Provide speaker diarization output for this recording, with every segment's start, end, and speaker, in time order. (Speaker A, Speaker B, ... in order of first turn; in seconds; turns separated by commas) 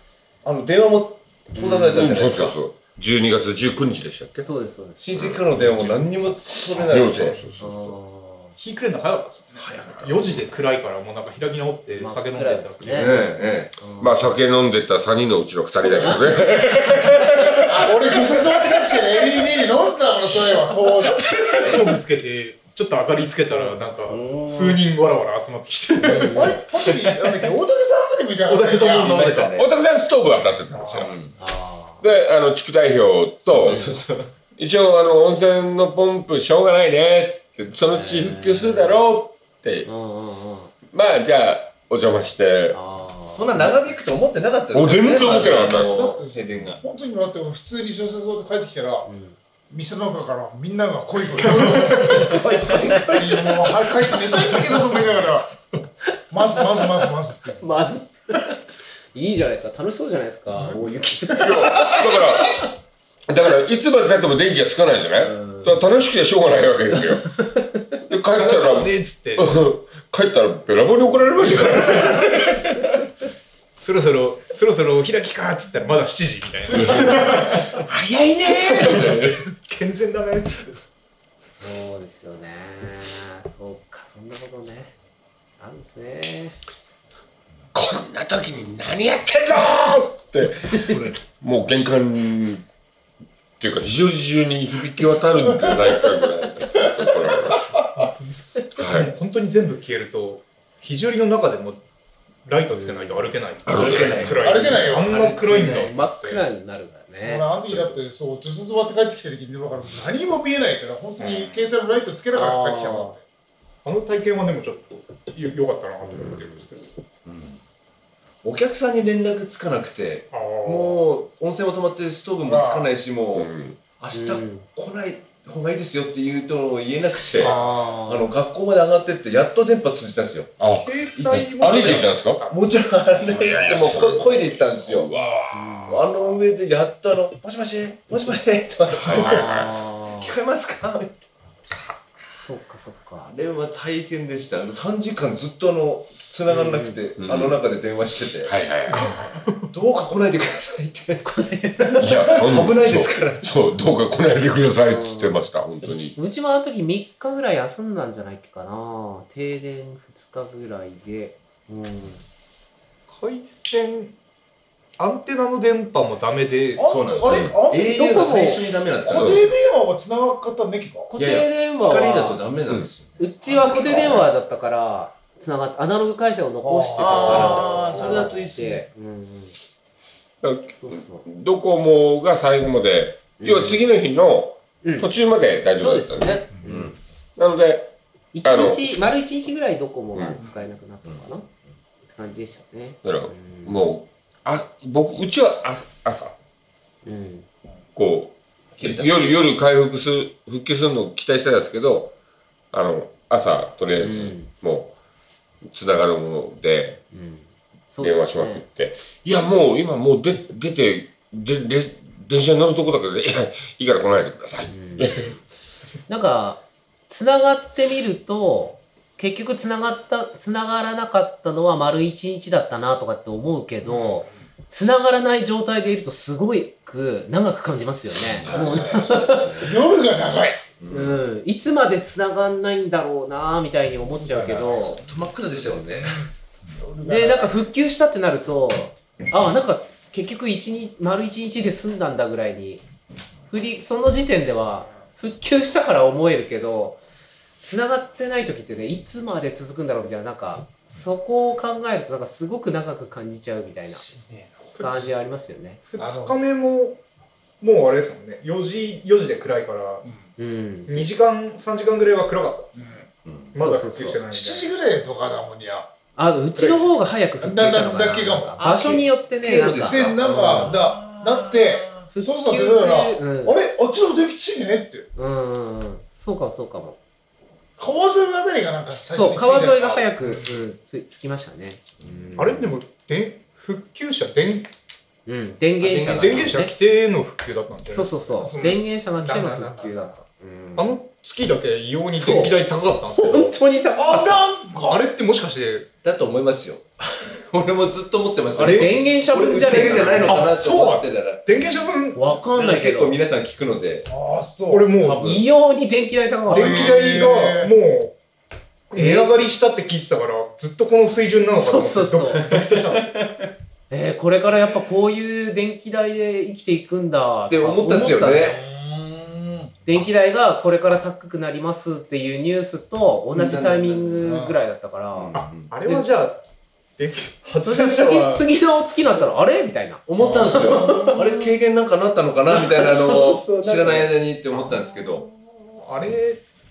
Speaker A: 0.4-2.6, Speaker B: 1.5-2.1, Speaker C: 1.9-4.5, Speaker B: 4.4-5.4, Speaker A: 5.0-7.4, Speaker C: 5.1-5.9, Speaker C: 6.8-7.9, Speaker B: 7.6-8.5, Speaker D: 8.6-13.2, Speaker A: 9.6-10.2, Speaker C: 10.0-10.4, Speaker B: 11.9-13.2, Speaker A: 12.9-13.8, Speaker B: 13.8-14.3, Speaker C: 14.0-17.9, Speaker B: 15.7-16.4, Speaker E: 17.6-21.4, Speaker D: 21.4-27.5, Speaker B: 23.5-24.8, Speaker B: 26.0-26.6, Speaker E: 26.2-29.3, Speaker D: 28.4-29.6, Speaker A: 28.8-29.7, Speaker C: 29.5-31.1, Speaker A: 31.0-31.3, Speaker B: 31.4-32.0, Speaker C: 32.0-33.9, Speaker A: 33.4-34.3, Speaker C: 34.6-39.9, Speaker B: 37.9-39.0, Speaker B: 39.8-40.7, Speaker C: 40.9-42.8, Speaker B: 42.7-43.7, Speaker A: 43.4-46.8, Speaker C: 44.7-46.0, Speaker E: 45.6-49.1, Speaker B: 49.0-49.4, Speaker E: 49.7-55.5, Speaker B: 51.3-54.3, Speaker E: 56.3-57.6, Speaker B: 56.6-56.9, Speaker B: 57.6-58.6, Speaker B: 59.1-62.3, Speaker C: 61.2-62.7, Speaker C: 63.3-67.3, Speaker B: 65.2-65.8, Speaker B: 67.2-67.8, Speaker C: 68.1-72.8, Speaker D: 68.3-69.6, Speaker D: 73.8-77.8, Speaker C: 76.8-79.5, Speaker D: 78.8-80.8, Speaker B: 81.5-84.9, Speaker B: 85.6-86.5, Speaker C: 87.7-92.6, Speaker C: 93.6-97.7, Speaker D: 98.0-101.8, Speaker C: 98.8-99.1, Speaker D: 102.4-106.4, Speaker B: 102.7-103.3, Speaker C: 103.7-104.5, Speaker A: 103.7-106.0, Speaker E: 104.4-105.2, Speaker B: 105.5-107.5, Speaker E: 107.2-113.2, Speaker D: 111.2-111.6, Speaker B: 112.3-113.2, Speaker D: 113.8-116.9, Speaker B: 116.0-116.5, Speaker A: 117.2-117.6, Speaker A: 118.4-130.6, Speaker D: 120.3-121.0, Speaker E: 122.4-122.9, Speaker C: 123.3-123.8, Speaker B: 124.1-124.7, Speaker D: 127.4-127.9, Speaker B: 127.4-128.3, Speaker C: 130.6-132.5, Speaker D: 130.6-132.6, Speaker A: 131.2-135.1, Speaker C: 133.2-135.9, Speaker B: 135.5-136.0, Speaker A: 135.9-141.2, Speaker C: 139.0-139.8, Speaker B: 139.1-140.3, Speaker B: 142.3-143.3, Speaker A: 143.3-151.3, Speaker B: 146.5-147.0, Speaker C: 147.2-147.6, Speaker C: 148.4-149.1, Speaker B: 151.2-152.3, Speaker A: 151.8-153.5, Speaker C: 152.0-156.2, Speaker B: 154.8-155.4, Speaker B: 156.2-162.2, Speaker D: 163.1-164.1, Speaker D: 165.0-166.9, Speaker E: 166.8-168.4, Speaker A: 166.8-169.5, Speaker B: 167.8-168.6, Speaker E: 169.0-171.1, Speaker C: 169.1-169.4, Speaker B: 171.1-172.4, Speaker A: 171.2-174.2, Speaker B: 173.2-179.6, Speaker E: 176.6-178.3, Speaker A: 177.0-178.8, Speaker C: 180.4-186.5, Speaker B: 180.7-181.2, Speaker B: 183.4-183.8, Speaker B: 184.8-185.1, Speaker B: 185.8-186.9, Speaker A: 186.6-187.0, Speaker C: 187.3-188.9, Speaker B: 188.3-191.5, Speaker C: 190.1-190.4, Speaker B: 192.1-193.9, Speaker C: 193.0-196.3, Speaker B: 197.0-197.5, Speaker C: 197.9-202.1, Speaker A: 198.8-199.2, Speaker C: 202.7-204.9, Speaker B: 204.0-204.5, Speaker C: 205.7-207.0, Speaker B: 207.1-208.7, Speaker C: 208.0-215.4, Speaker B: 214.7-215.3, Speaker B: 216.1-229.8, Speaker E: 223.8-224.3, Speaker E: 228.4-230.6, Speaker A: 228.4-229.4, Speaker A: 230.8-231.2, Speaker B: 230.9-235.0, Speaker E: 234.1-235.1, Speaker A: 235.0-236.2, Speaker E: 236.0-237.6, Speaker B: 237.0-242.8, Speaker B: 243.5-247.0, Speaker B: 247.6-254.0, Speaker E: 254.1-254.7, Speaker D: 254.8-255.1, Speaker B: 254.8-255.8, Speaker D: 255.9-257.0, Speaker E: 256.0-256.4, Speaker D: 257.6-260.1, Speaker B: 260.4-261.1, Speaker D: 260.9-262.9, Speaker E: 262.8-263.1, Speaker A: 263.2-263.5, Speaker D: 263.5-264.7, Speaker B: 263.6-264.2, Speaker E: 264.3-265.9, Speaker B: 266.1-270.8, Speaker E: 267.4-269.1, Speaker A: 269.4-272.0, Speaker E: 269.8-275.1, Speaker B: 272.1-273.6, Speaker B: 275.1-277.0, Speaker E: 277.8-280.6, Speaker B: 279.1-282.7, Speaker D: 282.4-284.7, Speaker B: 285.2-286.7, Speaker A: 285.8-286.6, Speaker D: 286.0-288.2, Speaker B: 287.9-290.9, Speaker E: 288.3-290.1, Speaker D: 290.8-293.6, Speaker B: 292.1-292.6, Speaker B: 293.1-294.4, Speaker E: 293.9-295.0, Speaker D: 294.7-295.9, Speaker A: 296.0-301.5, Speaker D: 298.5-302.4, Speaker B: 298.6-300.5, Speaker B: 302.1-303.2, Speaker A: 302.4-304.1, Speaker E: 304.1-304.9, Speaker D: 304.7-305.4, Speaker A: 305.0-305.4, Speaker B: 305.1-307.3, Speaker D: 306.5-308.1, Speaker E: 306.5-307.7, Speaker D: 308.9-313.3, Speaker B: 308.9-309.3, Speaker B: 311.5-312.5, Speaker A: 313.0-313.3, Speaker B: 313.9-318.6, Speaker A: 317.5-318.6, Speaker E: 318.2-319.7, Speaker B: 319.9-326.1, Speaker A: 323.3-324.4, Speaker E: 324.2-324.6, Speaker A: 325.1-325.7, Speaker D: 325.3-326.4, Speaker D: 327.0-328.5, Speaker B: 327.6-331.5, Speaker A: 330.1-335.2, Speaker E: 330.2-330.8, Speaker D: 330.7-331.1, Speaker B: 332.5-334.1, Speaker D: 335.7-336.4